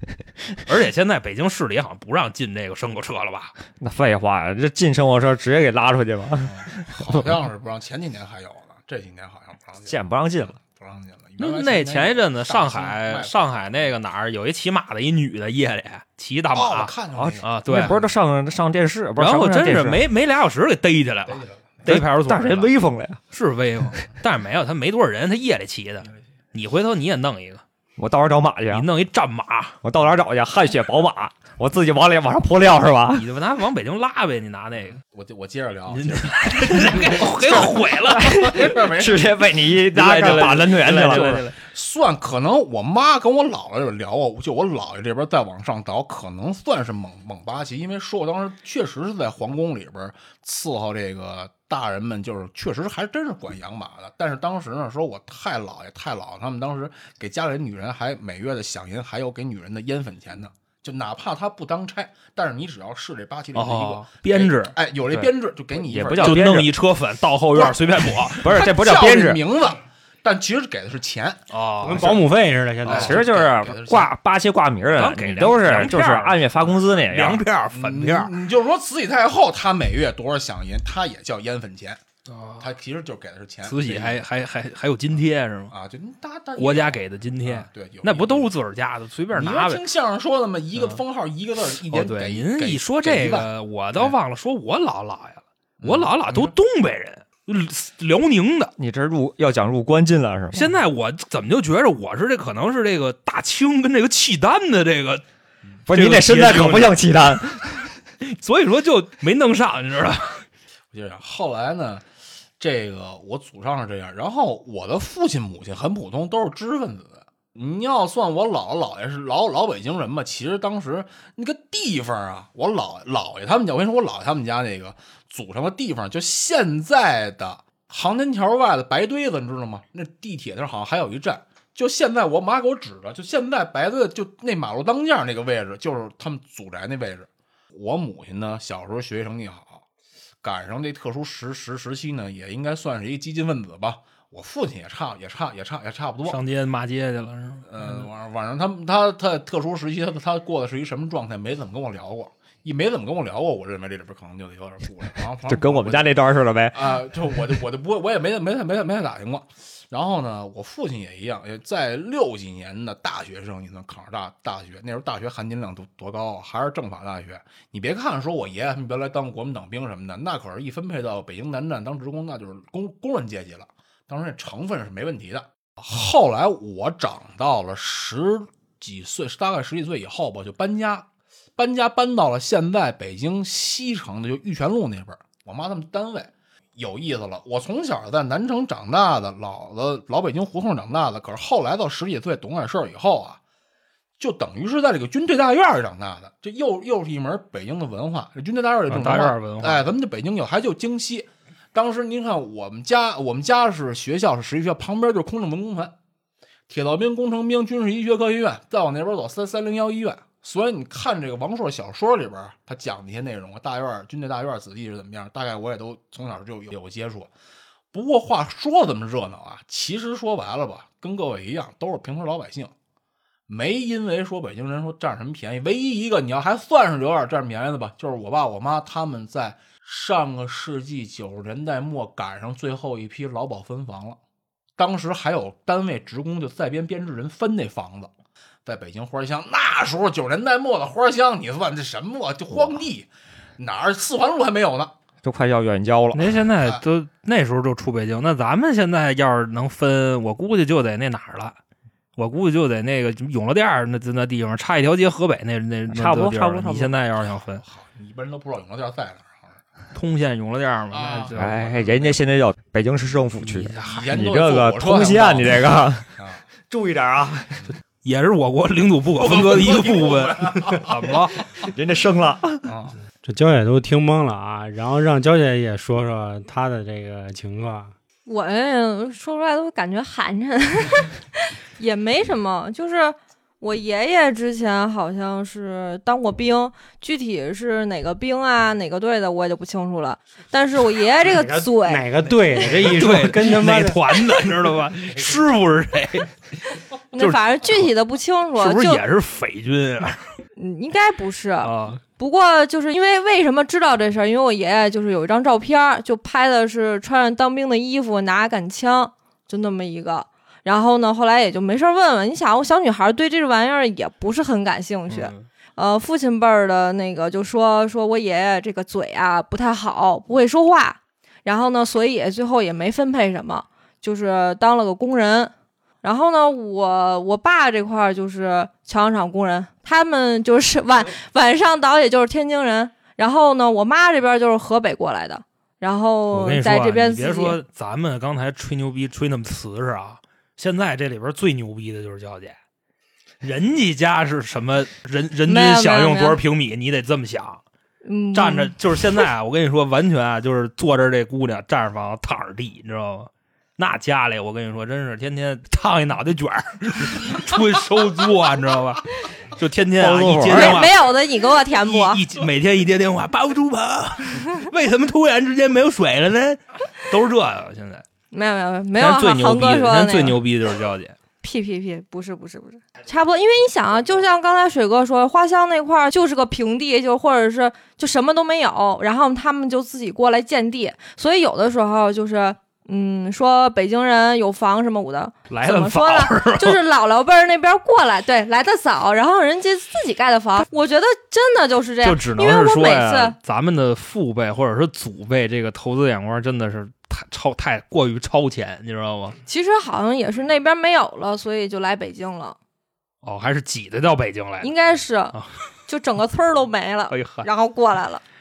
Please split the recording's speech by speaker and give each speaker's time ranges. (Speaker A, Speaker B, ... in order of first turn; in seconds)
Speaker A: 0.6-3.5, 11.4-17.9, 19.2-22.7, 23.3-27.6, 28.7-29.8, 33.1-35.0, 35.9-38.7, 39.9-41.6, 63.5-64.7, 66.2-68.6, 71.5-72.2, 74.9-78.3, 82.3-82.7, 83.6-85.7, 86.6-89.8, 90.8-91.0, 91.9-98.7, 100.5-105.2, 105.9-107.4, 108.2-110.4, 146.2-148.1, 198.9-199.9, 246.1-251.6, 252.2-257.6, 259.9-261.8, 263.4-264.1, 268.0-271.4, 292.8-296.3, 297.2-297.9, 298.6-300.2, 301.6-302.0, 315.1-315.4, 336.3-342.6, 343.4-347.6, 348.3-361.0, 361.9-368.0, 369.0-371.2, 385.5-386.8, 392.0-399.4, 403.2-404.7, 407.1-407.5
Speaker B: 3.8-7.3, 9.9-10.6, 17.1-20.0, 21.9-23.2, 28.0-28.9, 29.8-33.3, 38.1-41.4, 65.1-66.7, 68.4-69.4, 72.9-77.5, 98.8-100.7, 105.9-107.8, 155.4-156.9, 245.2-246.4, 255.9-256.9, 261.4-266.1, 266.7-267.6, 271.7-272.7, 360.0-360.9
Speaker C: 6.4-13.6, 16.5-18.1, 21.2-21.7, 35.1-39.3, 41.6-66.6, 67.5-72.2, 72.9-74.1, 77.7-82.0, 82.6-84.2, 85.7-88.5, 89.3-94.1, 95.8-96.5, 110.9-112.0, 112.6-139.8, 140.4-146.4, 147.7-193.4, 194.2-205.9, 206.7-217.3, 217.9-222.7, 223.5-234.2, 234.8-238.1, 238.6-244.9, 257.6-259.6, 260.9-262.1, 263.8-266.4, 269.2-271.2, 272.6-272.9
Speaker D: 71.8-73.2, 273.2-277.9, 291.4-294.0
Speaker E: 278.2-292.8, 297.1-299.0, 300.6-325.5, 326.0-337.6, 345.5-346.4, 348.0-348.7, 360.5-362.2, 368.3-370.4, 371.4-393.4, 399.4-402.6, 404.6-408.2